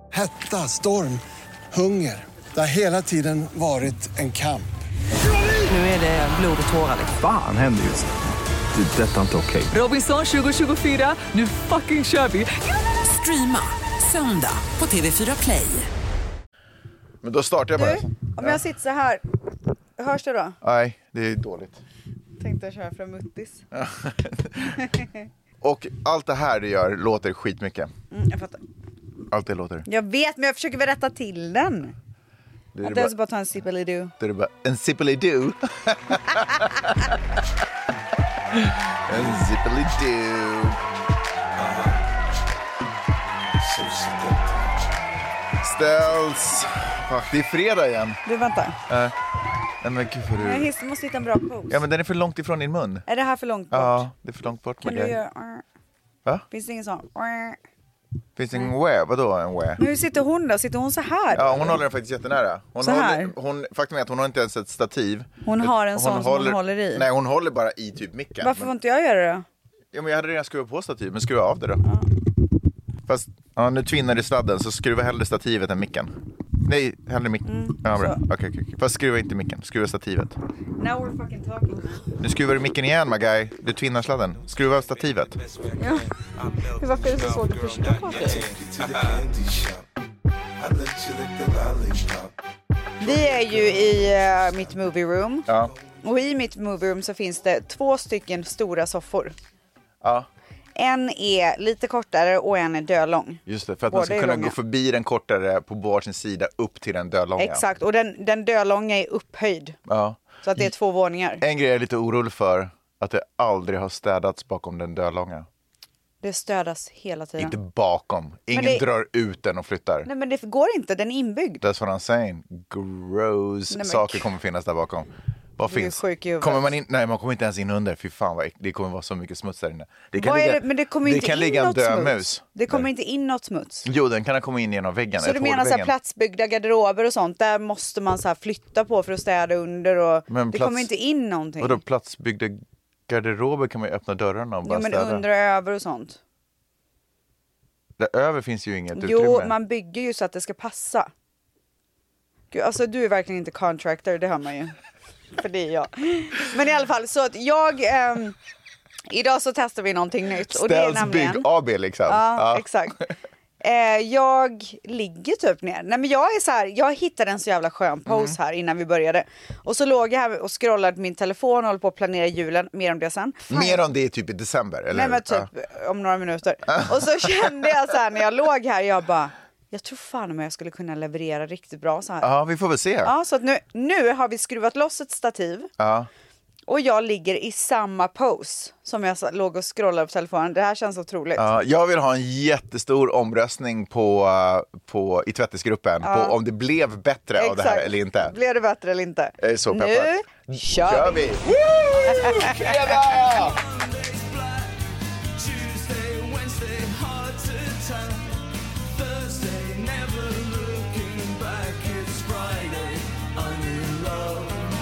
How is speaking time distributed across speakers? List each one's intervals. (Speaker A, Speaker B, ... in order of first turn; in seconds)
Speaker A: 0.1-4.7
Speaker B: 5.7-7.2, 9.7-15.9, 204.0-204.7, 205.4-208.3, 209.0-214.6
Speaker C: 7.1-8.1, 8.7-9.7
Speaker D: 17.2-18.6, 20.6-21.8, 23.7-24.8, 25.6-27.9, 29.3-29.9, 32.7-33.1, 34.2-37.1, 38.5-40.8, 45.6-48.2, 48.9-49.1, 49.8-50.7, 51.7-53.0, 53.7-55.1, 58.4-59.8, 61.3-68.7, 69.9-71.8, 73.1-76.1, 76.6-80.4, 82.2-85.5, 88.6-89.2, 95.5-95.7, 100.0-100.3, 103.5-107.6, 109.9-110.7, 111.4-115.5, 117.4-120.1, 121.6-132.8, 133.8-135.9, 140.3-140.9, 141.6-145.2, 148.0-149.5, 160.5-163.1, 168.1-168.3, 173.5-175.5, 182.2-183.1, 185.8-186.1, 191.4-198.3, 199.4-203.6
Speaker E: 17.7-19.2, 20.0-20.6, 22.4-23.6, 28.1-28.6, 29.9-31.9, 32.8-34.1, 48.2-48.8, 50.4-51.8, 53.1-54.1, 54.8-55.6, 56.5-57.6, 59.8-61.8, 62.8-63.3, 65.4-67.1, 68.4-69.4, 77.4-78.2, 80.8-82.0, 85.7-86.1, 86.6-88.5, 93.0-95.5, 96.0-99.3, 100.8-104.5, 107.4-109.8, 110.4-111.4, 116.2-117.5, 118.5-118.8, 120.0-121.6, 123.7-124.3, 125.7-126.7, 130.2-133.8, 135.2-141.8, 144.6-146.2, 148.9-151.1, 152.5-154.7, 155.4-158.4, 159.1-161.5, 162.1-163.0, 163.6-173.8, 174.9-182.3, 183.0-185.7, 186.7-191.4, 196.0-196.3, 197.4-201.3, 202.0-203.0